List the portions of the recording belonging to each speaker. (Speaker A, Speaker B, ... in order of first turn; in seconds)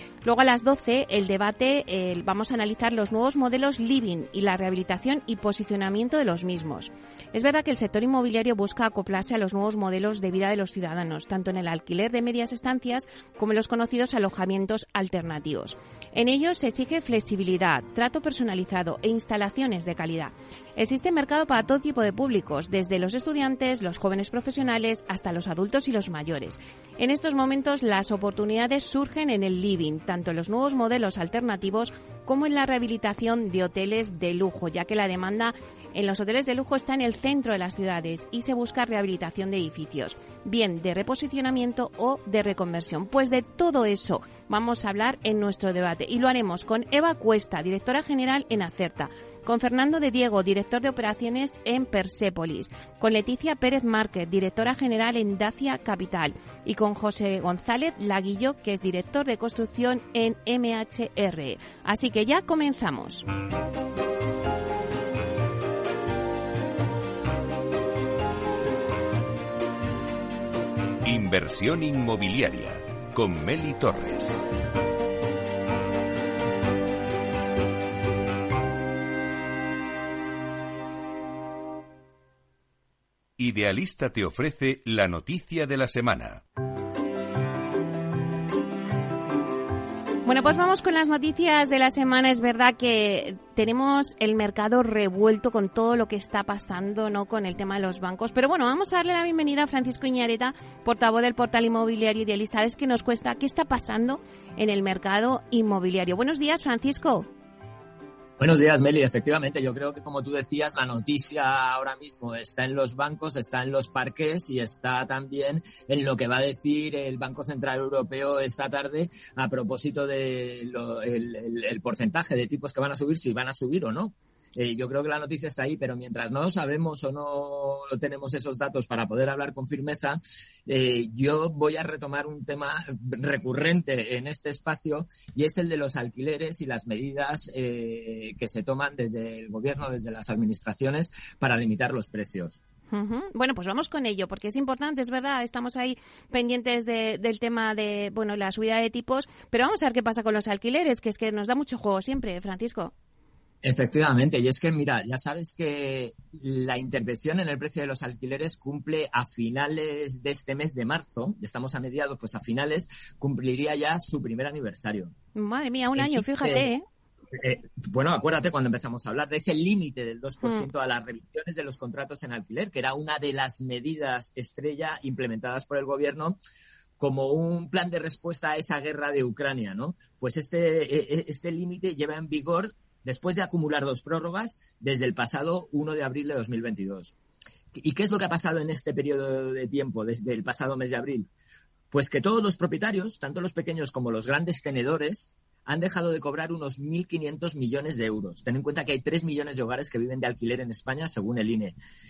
Speaker A: 0.2-63.2, 90.2-107.3, 142.9-152.9, 165.3-166.8
Speaker B: 71.0-74.3, 83.4-86.4
Speaker C: 108.4-142.6, 153.6-165.1, 165.9-166.7, 167.3-176.4, 177.0-187.1, 187.8-191.3, 191.9-201.8